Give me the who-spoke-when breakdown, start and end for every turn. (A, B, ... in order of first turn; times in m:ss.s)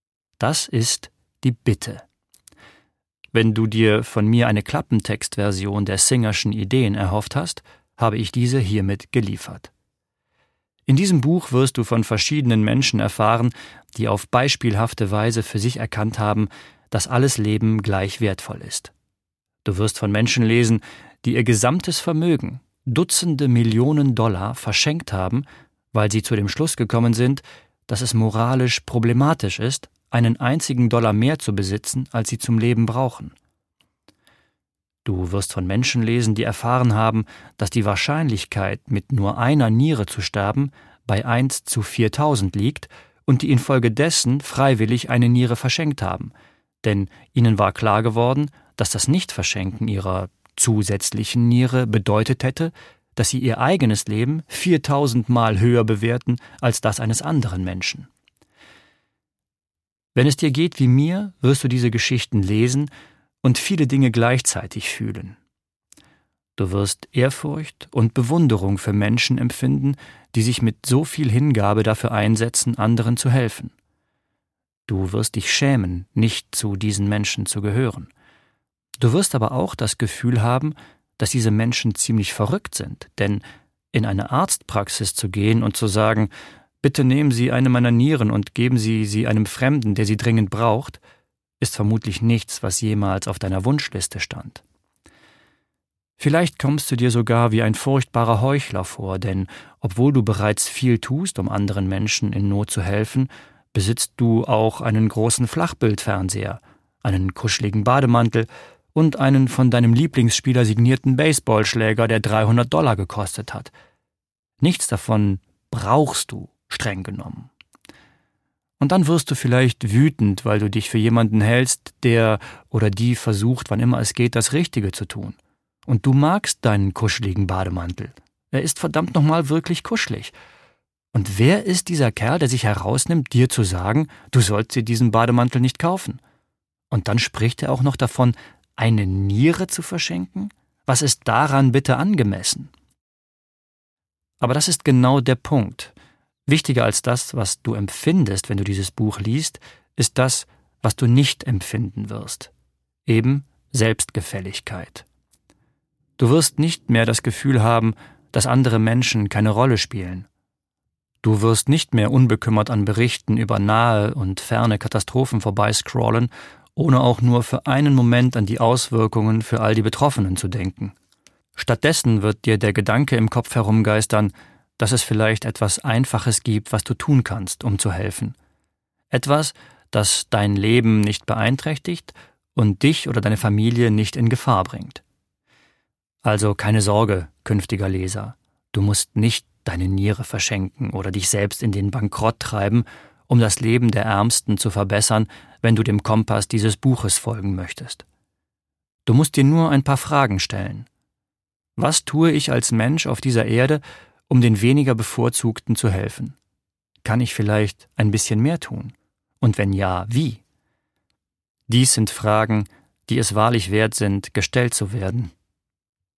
0:00.4-0:02.0 A
0:03.3-0:09.7 A
0:10.9-0:18.9 A
0:19.6-0:33.4 A
0:35.0-0:58.1 A
1:00.1-1:02.9 A
1:03.4-1:05.4 A
1:06.6-1:13.7 A
1:14.9-1:18.1 A
1:19.0-1:26.3 A
1:26.8-1:31.0 A
1:31.6-1:34.6 A
1:36.2-1:53.7 A
1:54.6-1:57.5 A
1:58.8-2:10.3 A
2:11.1-2:16.2 A
2:16.9-2:22.7 A
2:24.4-2:25.9 A
2:26.5-2:32.5 A
2:33.0-2:35.0 A
2:36.2-2:40.2 A
2:41.2-2:50.9 A
2:51.6-2:58.4 A
2:59.1-3:05.0 A
3:06.2-3:18.0 A
3:19.0-3:20.9 A
3:21.8-3:26.4 A
3:27.0-3:30.4 A
3:31.7-3:35.3 A